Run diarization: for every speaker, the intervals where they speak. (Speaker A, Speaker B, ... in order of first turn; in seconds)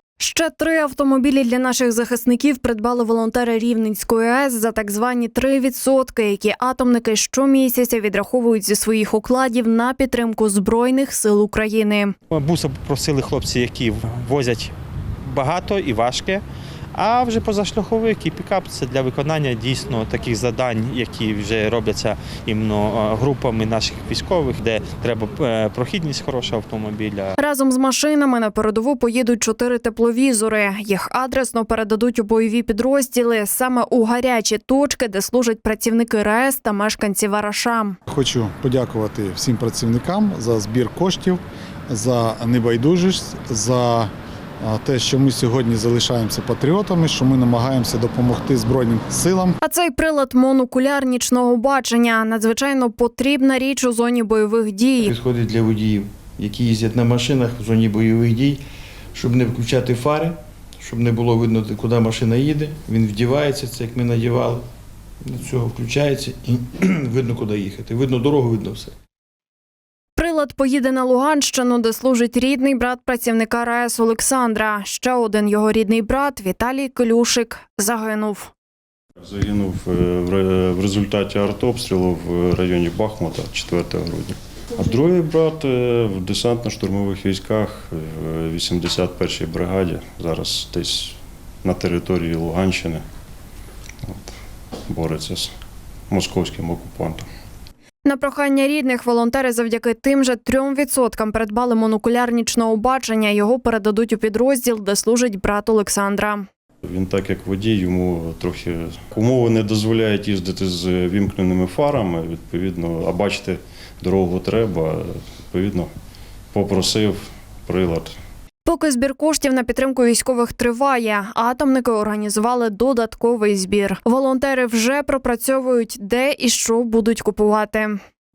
Speaker A: 0.2-12.2, 27.4-38.0, 49.6-55.1, 70.2-78.5, 98.0-106.5, 118.7-128.0
Speaker B: 12.3-27.3
Speaker C: 38.1-49.6
Speaker D: 55.0-58.6, 59.1-64.7, 65.2-69.0
Speaker E: 79.2-93.0, 94.0-94.3, 94.9-95.5, 96.1-97.3, 106.8-115.9, 116.5-118.2